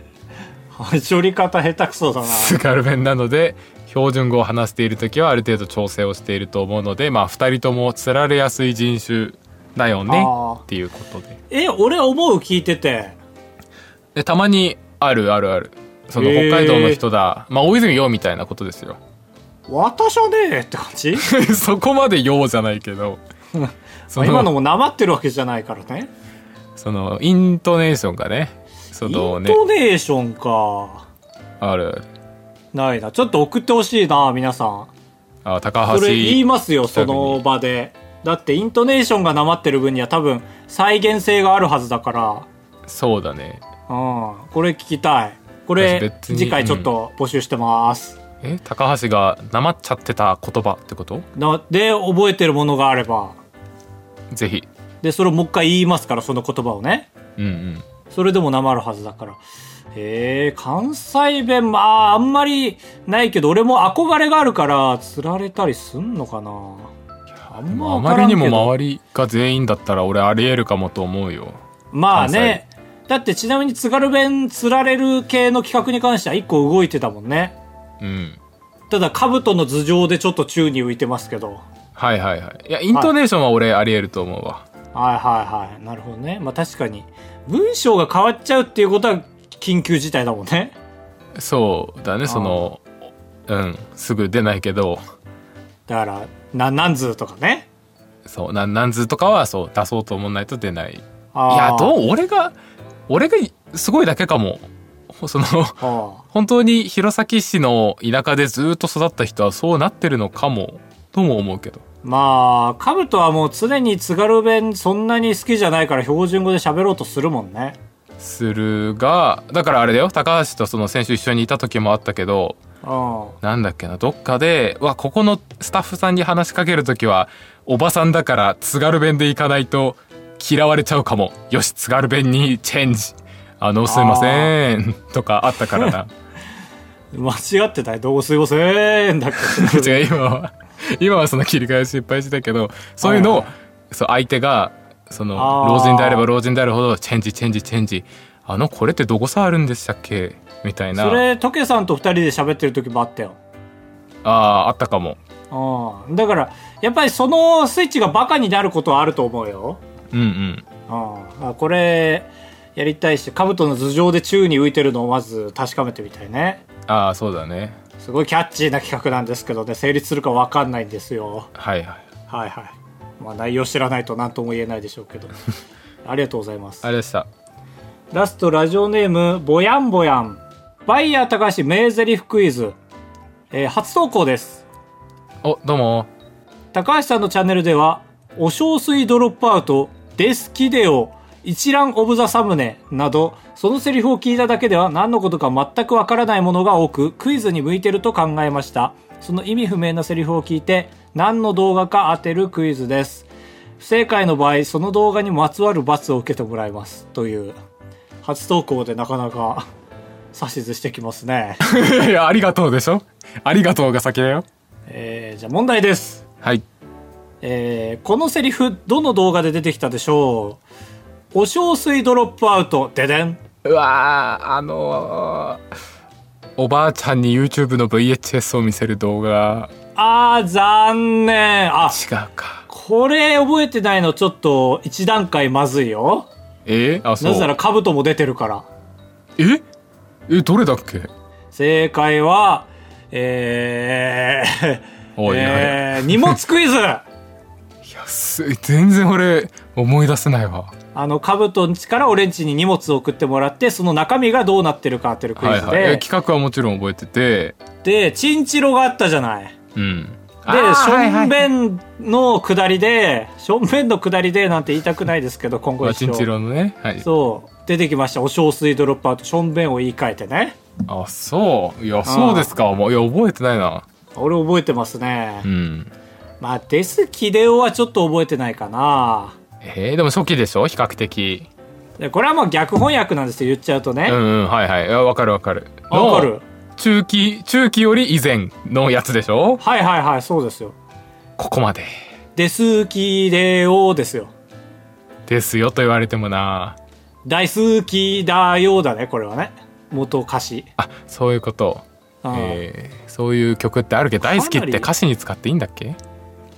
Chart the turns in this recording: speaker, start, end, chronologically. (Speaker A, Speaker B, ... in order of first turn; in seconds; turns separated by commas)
Speaker A: 0.7-2.6, Speaker B: 2.2-11.4, Speaker A: 10.1-10.6, Speaker A: 11.5-13.2, Speaker B: 14.1-19.0, Speaker A: 16.1-17.0, Speaker A: 19.7-21.3, Speaker B: 21.1-23.2, Speaker A: 23.5-26.1, Speaker B: 24.1-24.5, Speaker B: 26.8-29.6, Speaker A: 29.0-31.1, Speaker B: 31.6-32.0, Speaker A: 32.7-34.9, Speaker B: 35.4-37.4, Speaker A: 35.9-42.5, Speaker B: 42.9-43.6, Speaker A: 43.9-48.2, Speaker B: 45.8-46.9, Speaker B: 48.4-51.2, Speaker A: 51.4-53.4, Speaker B: 54.3-54.7, Speaker A: 55.0-57.1, Speaker B: 57.4-57.8, Speaker A: 58.1-59.4, Speaker A: 59.9-66.9, Speaker B: 67.4-71.6, Speaker A: 67.5-68.7, Speaker A: 71.9-77.5, Speaker B: 72.1-72.6, Speaker B: 78.0-78.4, Speaker A: 78.9-81.6, Speaker B: 82.0-84.6, Speaker A: 84.9-90.7, Speaker B: 91.3-92.8, Speaker A: 92.2-92.7, Speaker B: 93.5-95.0, Speaker A: 95.9-97.7, Speaker B: 98.2-102.5, Speaker A: 101.3-102.0, Speaker B: 103.1-111.8, Speaker A: 105.8-106.2, Speaker A: 112.0-117.8, Speaker B: 118.2-122.6, Speaker A: 122.8-123.4, Speaker B: 123.4-136.1, Speaker A: 133.8-134.5, Speaker A: 137.1-140.0, Speaker B: 139.5-151.2, Speaker A: 143.0-143.5, Speaker A: 145.3-146.3, Speaker A: 150.9-153.4, Speaker B: 154.2-155.2, Speaker A: 155.5-159.8, Speaker B: 160.1-160.6, Speaker A: 160.9-166.6, Speaker B: 166.9-167.8, Speaker A: 168.0-171.5, Speaker B: 171.6-172.1, Speaker A: 172.3-175.3, Speaker A: 176.0-176.8, Speaker B: 176.8-177.3, Speaker A: 178.1-182.8, Speaker A: 183.5-184.6, Speaker B: 185.4-186.1, Speaker A: 186.7-203.3, Speaker A: 203.8-207.5, Speaker A: 208.2-209.7, Speaker A: 210.3-211.6, Speaker B: 211.6-214.4, Speaker A: 214.9-216.2, Speaker A: 217.4-220.6, Speaker A: 221.3-223.4, Speaker B: 223.6-225.6, Speaker B: 226.6-229.7, Speaker A: 229.9-232.0, Speaker B: 231.9-232.7, Speaker A: 232.7-236.3, Speaker B: 236.7-237.5, Speaker A: 237.2-238.7, Speaker B: 239.4-239.6, Speaker B: 240.3-241.1, Speaker A: 241.5-247.1, Speaker B: 245.2-246.4, Speaker B: 247.8-250.7, Speaker A: 250.9-256.0, Speaker B: 255.4-257.6, Speaker A: 257.8-259.5, Speaker B: 259.7-261.5, Speaker A: 260.5-266.3, Speaker B: 265.8-267.1, Speaker A: 267.0-270.6, Speaker B: 270.9-273.8, Speaker A: 272.0-272.5, Speaker A: 274.1-275.5, Speaker B: 275.4-275.9, Speaker A: 276.4-279.4, Speaker B: 279.6-281.5, Speaker A: 282.0-284.2, Speaker B: 284.1-289.6, Speaker A: 285.9-286.4, Speaker A: 289.6-290.8, Speaker B: 291.4-291.9, Speaker A: 292.3-294.3, Speaker B: 295.3-296.8, Speaker A: 297.2-300.7, Speaker B: 300.8-306.0, Speaker A: 302.2-302.6, Speaker A: 304.2-304.9